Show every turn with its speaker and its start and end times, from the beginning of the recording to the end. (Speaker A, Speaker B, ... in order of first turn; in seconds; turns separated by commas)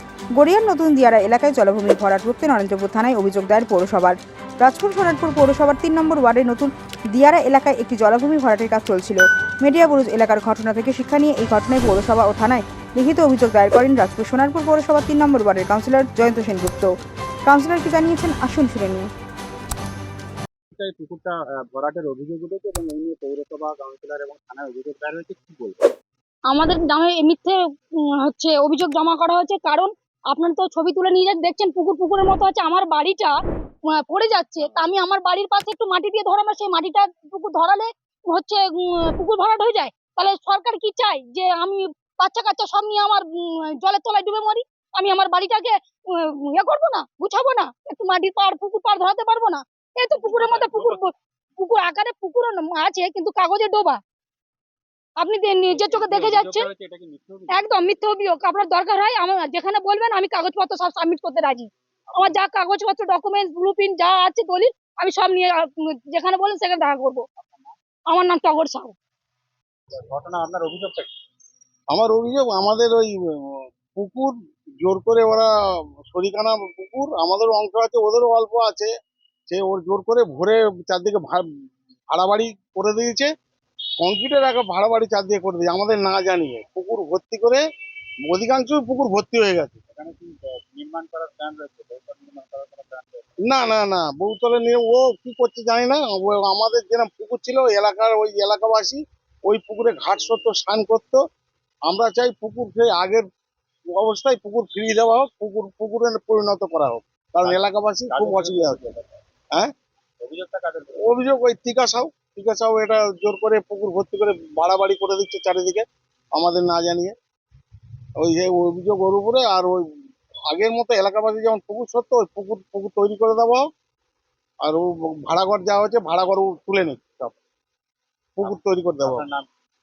Speaker A: 0.3-19.1, Speaker B: 20.7-25.8, Speaker C: 26.5-27.6, Speaker C: 28.2-33.4, Speaker C: 33.9-54.0, Speaker B: 34.6-35.0, Speaker B: 50.1-51.1, Speaker C: 55.2-56.7, Speaker B: 55.7-57.7, Speaker C: 57.5-67.2, Speaker B: 67.4-67.7, Speaker C: 68.1-68.9, Speaker B: 69.9-71.1, Speaker D: 71.9-75.5, Speaker D: 76.1-78.9, Speaker D: 79.5-81.4, Speaker D: 82.1-83.3, Speaker D: 84.0-87.6, Speaker D: 88.3-89.8, Speaker B: 89.9-93.4, Speaker D: 93.4-101.2, Speaker D: 101.9-103.2, Speaker D: 103.9-108.9, Speaker B: 107.4-109.0, Speaker B: 110.2-111.1, Speaker D: 111.0-115.8, Speaker D: 116.4-117.2, Speaker D: 118.2-119.8, Speaker D: 120.5-123.6, Speaker D: 124.6-127.4, Speaker D: 128.4-129.2, Speaker B: 128.4-129.5